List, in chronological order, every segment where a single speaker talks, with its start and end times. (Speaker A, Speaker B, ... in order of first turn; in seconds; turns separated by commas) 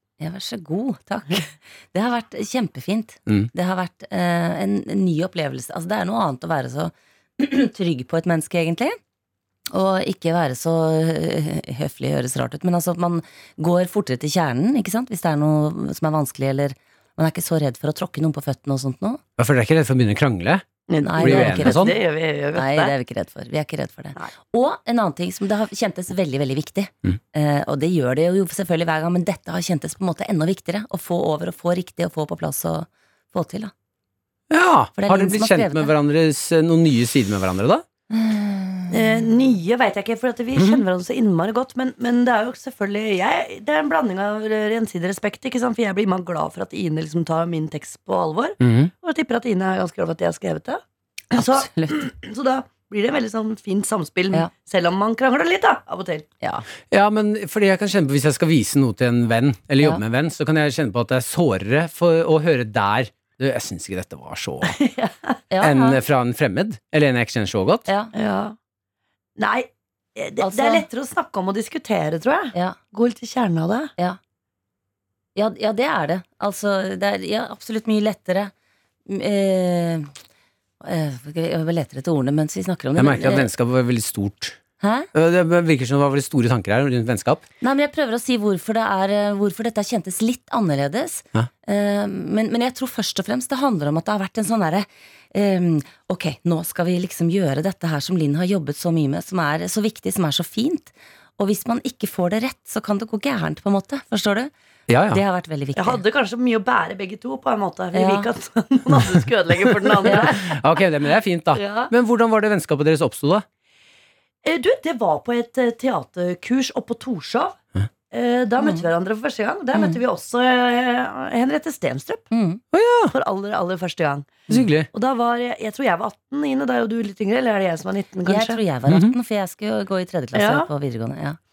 Speaker A: 0.2-9.0, Speaker A: 9.7-19.2, Speaker B: 19.4-20.6, Speaker C: 20.9-22.9, Speaker A: 21.0-21.9, Speaker B: 21.1-21.9, Speaker A: 22.5-33.7, Speaker B: 34.5-37.8, Speaker A: 35.0-35.9, Speaker A: 38.1-39.0, Speaker C: 38.9-56.3, Speaker B: 48.6-48.9, Speaker A: 51.4-52.0, Speaker A: 56.4-56.6, Speaker B: 56.9-64.8, Speaker C: 64.6-65.4, Speaker A: 65.5-66.0, Speaker B: 65.6-67.9, Speaker A: 67.9-68.1, Speaker C: 68.1-68.5, Speaker C: 69.4-73.9, Speaker A: 70.4-70.8, Speaker A: 72.5-72.8, Speaker A: 75.3-78.5, Speaker A: 79.0-80.1, Speaker A: 80.8-83.5, Speaker B: 83.0-84.6, Speaker A: 84.8-85.1, Speaker B: 85.1-87.4, Speaker A: 87.6-104.5, Speaker B: 104.9-105.2, Speaker A: 105.1-106.0, Speaker C: 105.7-110.6, Speaker A: 107.9-108.3, Speaker A: 110.0-110.3, Speaker B: 110.1-113.4, Speaker C: 111.5-111.9, Speaker C: 114.4-117.6, Speaker C: 118.1-122.3, Speaker A: 118.6-118.9, Speaker A: 122.3-122.6, Speaker B: 122.7-123.1, Speaker C: 123.1-128.6, Speaker B: 124.5-124.9, Speaker A: 128.2-131.4, Speaker B: 128.9-129.1, Speaker C: 130.3-130.7